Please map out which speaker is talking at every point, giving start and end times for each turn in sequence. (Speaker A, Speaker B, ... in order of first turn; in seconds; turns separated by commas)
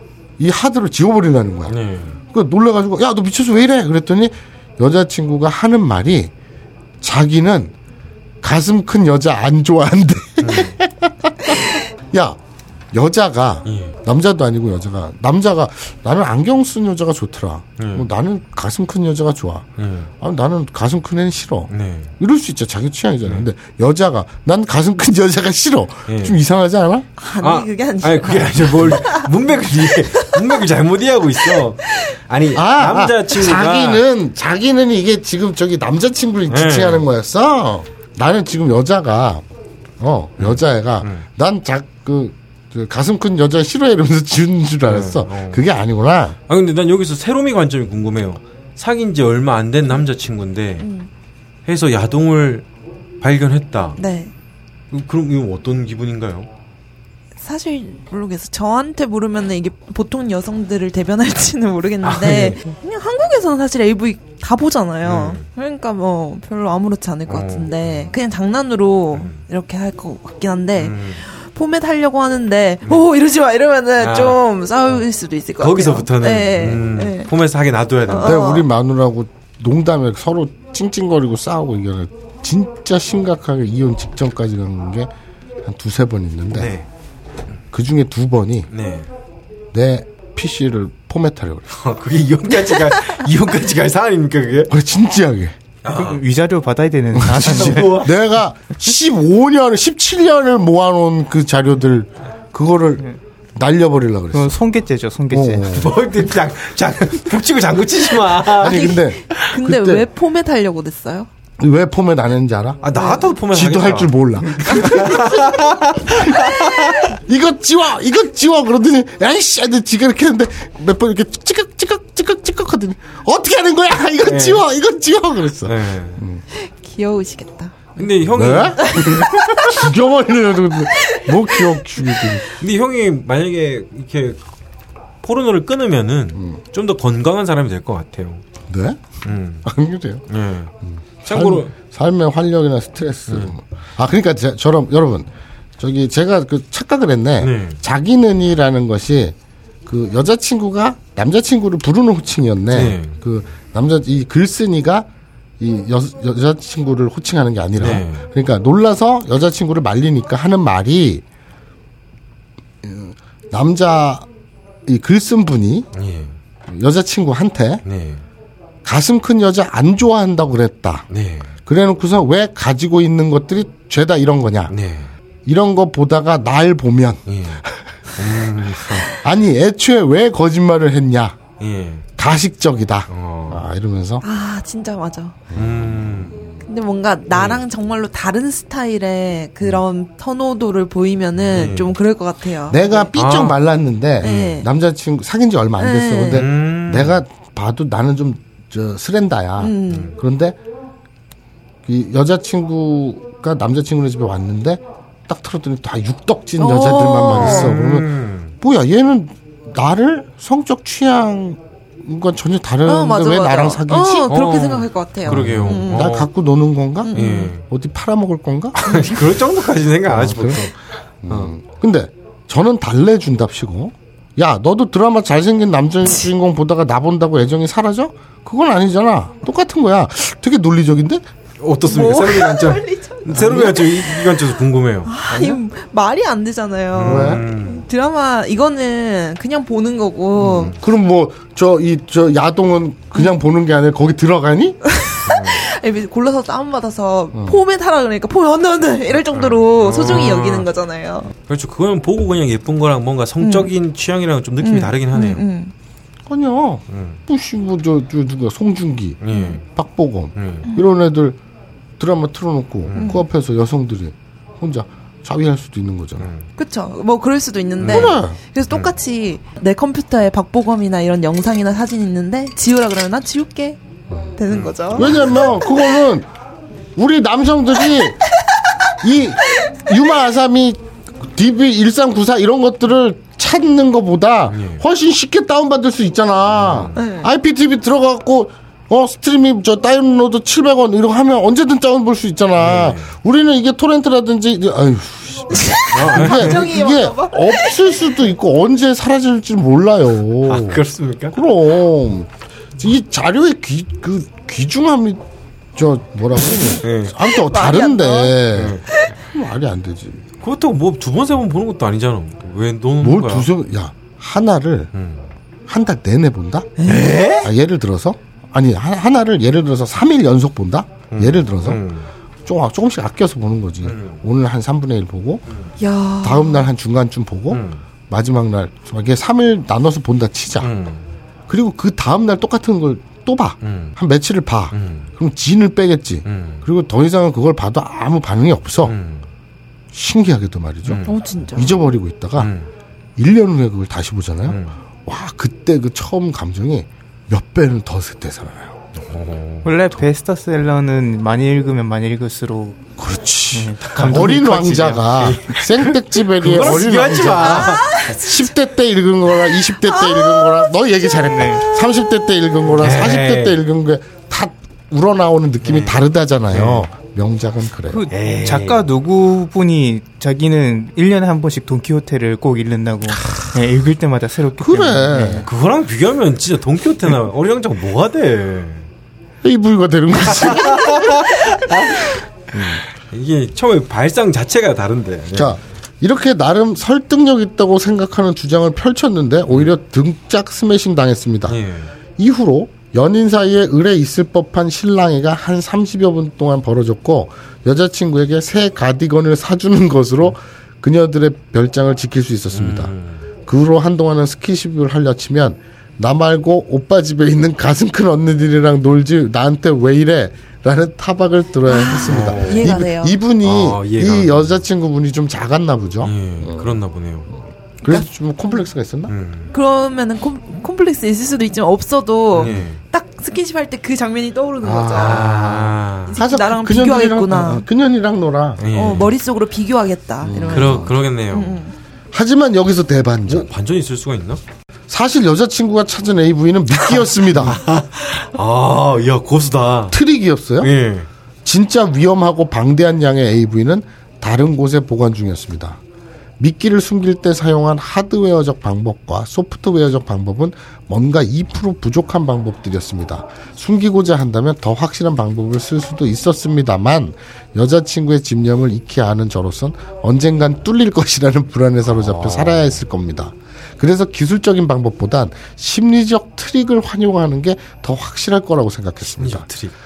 Speaker A: 0.4-1.8, Speaker B: 1.7-2.2, Speaker A: 2.3-6.3, Speaker A: 7.0-7.7, Speaker A: 8.4-12.4, Speaker B: 10.4-10.8, Speaker A: 12.9-19.7, Speaker B: 13.7-14.0, Speaker B: 17.8-18.1, Speaker B: 19.8-20.1, Speaker A: 20.2-27.1, Speaker B: 21.7-22.1, Speaker B: 26.1-26.4, Speaker C: 27.2-29.3, Speaker B: 27.4-34.0, Speaker C: 30.1-30.4, Speaker A: 32.5-39.5, Speaker B: 36.5-37.0, Speaker A: 40.0-46.4, Speaker B: 40.4-41.3, Speaker B: 44.9-45.6, Speaker B: 46.5-50.9, Speaker C: 50.8-51.1, Speaker B: 51.7-52.7, Speaker B: 53.2-54.0, Speaker C: 54.0-54.3, Speaker B: 54.9-56.5, Speaker C: 57.4-77.3, Speaker B: 62.0-62.6, Speaker B: 65.0-65.4, Speaker B: 67.3-68.1, Speaker B: 69.2-69.4, Speaker B: 70.8-71.2, Speaker B: 74.0-74.4, Speaker B: 75.6-78.4, Speaker C: 78.1-78.7, Speaker A: 78.2-85.1, Speaker A: 85.6-86.7, Speaker B: 86.5-86.9, Speaker A: 87.7-88.7, Speaker B: 88.7-89.1, Speaker A: 89.7-91.7, Speaker B: 91.7-94.7, Speaker A: 94.7-95.6, Speaker B: 95.8-96.2, Speaker D: 95.9-98.0, Speaker A: 97.2-103.0, Speaker B: 97.4-98.1, Speaker A: 103.5-104.6, Speaker D: 104.3-105.8, Speaker A: 105.3-105.9, Speaker B: 105.7-109.0, Speaker A: 108.6-110.0, Speaker C: 108.6-111.3, Speaker A: 111.6-112.8, Speaker B: 112.8-117.0, Speaker C: 112.9-113.3, Speaker A: 113.5-116.4, Speaker C: 116.4-117.0, Speaker A: 117.1-126.4, Speaker B: 124.2-124.6, Speaker B: 125.7-126.2, Speaker C: 126.5-128.1, Speaker B: 128.0-129.1, Speaker A: 128.3-132.4, Speaker C: 128.8-129.9, Speaker C: 130.9-132.3, Speaker B: 132.6-134.4, Speaker B: 135.2-138.4, Speaker A: 136.3-136.6, Speaker A: 138.7-140.2, Speaker B: 139.2-139.7, Speaker B: 140.3-140.7, Speaker A: 140.8-145.3, Speaker B: 141.2-141.7, Speaker A: 145.8-155.1, Speaker B: 147.4-147.8, Speaker B: 152.7-153.2, Speaker A: 155.6-161.2, Speaker B: 157.8-158.2, Speaker A: 162.8-164.3, Speaker A: 164.9-165.9, Speaker B: 165.9-166.4, Speaker A: 166.7-167.8, Speaker B: 167.8-168.2, Speaker A: 168.8-171.1, Speaker B: 171.1-171.6, Speaker A: 171.7-174.7, Speaker B: 174.7-175.1, Speaker A: 175.4-181.4, Speaker B: 177.3-177.6, Speaker B: 178.2-179.2, Speaker B: 181.6-182.1, Speaker A: 182.2-184.2, Speaker B: 183.1-183.7, Speaker C: 184.2-185.4, Speaker A: 185.5-186.5, Speaker B: 185.6-186.4, Speaker C: 186.7-193.1, Speaker B: 187.3-187.6, Speaker B: 191.5-192.0, Speaker A: 192.7-200.6, Speaker B: 193.2-193.6, Speaker B: 194.2-194.5, Speaker C: 194.2-194.7, Speaker C: 195.8-196.4, Speaker B: 196.3-197.2, Speaker C: 199.6-200.2, Speaker A: 201.9-214.3, Speaker C: 206.6-207.7, Speaker B: 207.3-208.5, Speaker C: 212.8-216.1, Speaker B: 214.3-216.3, Speaker A: 215.3-218.8, Speaker C: 217.0-217.5, Speaker B: 217.1-217.6, Speaker B: 218.8-221.5, Speaker A: 220.1-220.7, Speaker A: 221.2-231.2, Speaker B: 231.6-235.2, Speaker C: 231.8-234.3, Speaker A: 233.3-233.8, Speaker C: 235.1-240.8, Speaker B: 236.9-237.8, Speaker A: 237.0-237.4, Speaker A: 240.4-244.8, Speaker C: 244.9-251.3, Speaker B: 245.3-245.6, Speaker A: 247.3-247.6, Speaker B: 249.3-250.7, Speaker B: 251.5-255.4, Speaker C: 253.4-253.7, Speaker C: 254.6-255.7, Speaker A: 256.3-261.4, Speaker B: 256.9-257.2, Speaker B: 259.2-259.6, Speaker C: 259.3-259.6, Speaker B: 260.4-260.7, Speaker A: 262.0-266.3, Speaker B: 262.9-263.2, Speaker C: 262.9-263.2, Speaker B: 266.2-266.5, Speaker C: 266.6-273.8, Speaker B: 267.8-268.2, Speaker A: 267.8-268.4, Speaker A: 274.1-274.4, Speaker C: 274.4-275.6, Speaker B: 274.5-275.5, Speaker A: 274.9-276.3, Speaker A: 277.0-278.2, Speaker A: 279.0-305.2, Speaker B: 284.5-284.8, Speaker B: 286.6-287.0, Speaker C: 287.0-287.3, Speaker B: 292.6-293.1, Speaker C: 295.5-298.1, Speaker B: 295.9-296.7, Speaker B: 300.5-301.4, Speaker A: 305.8-308.8, Speaker B: 306.8-307.1, Speaker C: 307.3-308.4, Speaker B: 308.5-308.8, Speaker A: 309.3-310.2, Speaker B: 310.4-313.5, Speaker A: 313.0-314.9, Speaker B: 314.9-315.3, Speaker A: 315.7-316.8, Speaker C: 316.8-317.2, Speaker B: 316.9-317.5, Speaker A: 317.4-321.8, Speaker B: 321.1-322.1, Speaker A: 322.4-325.4, Speaker B: 323.8-324.2, Speaker C: 325.8-326.6, Speaker A: 326.2-330.7, Speaker B: 327.5-327.8, Speaker B: 330.6-331.1, Speaker A: 331.5-339.0, Speaker B: 333.6-333.9, Speaker B: 334.7-335.1, Speaker B: 336.3-336.6, Speaker B: 338.8-339.3, Speaker A: 339.9-342.5, Speaker B: 340.9-341.1, Speaker C: 341.1-341.8, Speaker B: 342.4-342.7, Speaker A: 343.2-348.8, Speaker B: 344.5-344.8, Speaker B: 349.0-349.7, Speaker D: 349.6-352.8, Speaker A: 353.0-368.0, Speaker D: 353.5-355.1, Speaker B: 355.2-358.3, Speaker C: 357.6-358.1, Speaker C: 359.9-360.7, Speaker D: 361.2-361.6, Speaker B: 362.8-363.6, Speaker B: 365.6-366.9, Speaker D: 367.9-375.5, Speaker B: 368.1-368.9, Speaker A: 374.6-375.4, Speaker B: 375.5-378.9, Speaker A: 379.4-381.3, Speaker B: 380.4-385.6, Speaker A: 382.5-382.8, Speaker A: 385.3-391.6, Speaker B: 391.5-391.9, Speaker A: 392.2-402.9, Speaker B: 402.5-403.2, Speaker A: 403.5-416.8, Speaker C: 411.7-413.2, Speaker B: 412.0-412.8, Speaker B: 413.4-414.6, Speaker B: 416.0-417.3, Speaker A: 417.4-419.1, Speaker C: 417.9-418.6, Speaker B: 419.1-419.5, Speaker C: 419.5-425.2, Speaker B: 422.4-422.8, Speaker A: 424.6-429.0, Speaker B: 424.9-426.2, Speaker C: 426.1-427.6, Speaker B: 428.6-429.1, Speaker C: 428.7-431.7, Speaker A: 430.2-430.9, Speaker B: 430.5-431.6, Speaker A: 432.1-433.5, Speaker B: 433.3-434.4, Speaker A: 434.9-437.6, Speaker B: 437.3-440.0, Speaker A: 439.9-440.7, Speaker B: 440.6-441.1, Speaker A: 441.4-445.8, Speaker A: 446.4-469.5, Speaker B: 461.9-462.7, Speaker B: 469.1-469.7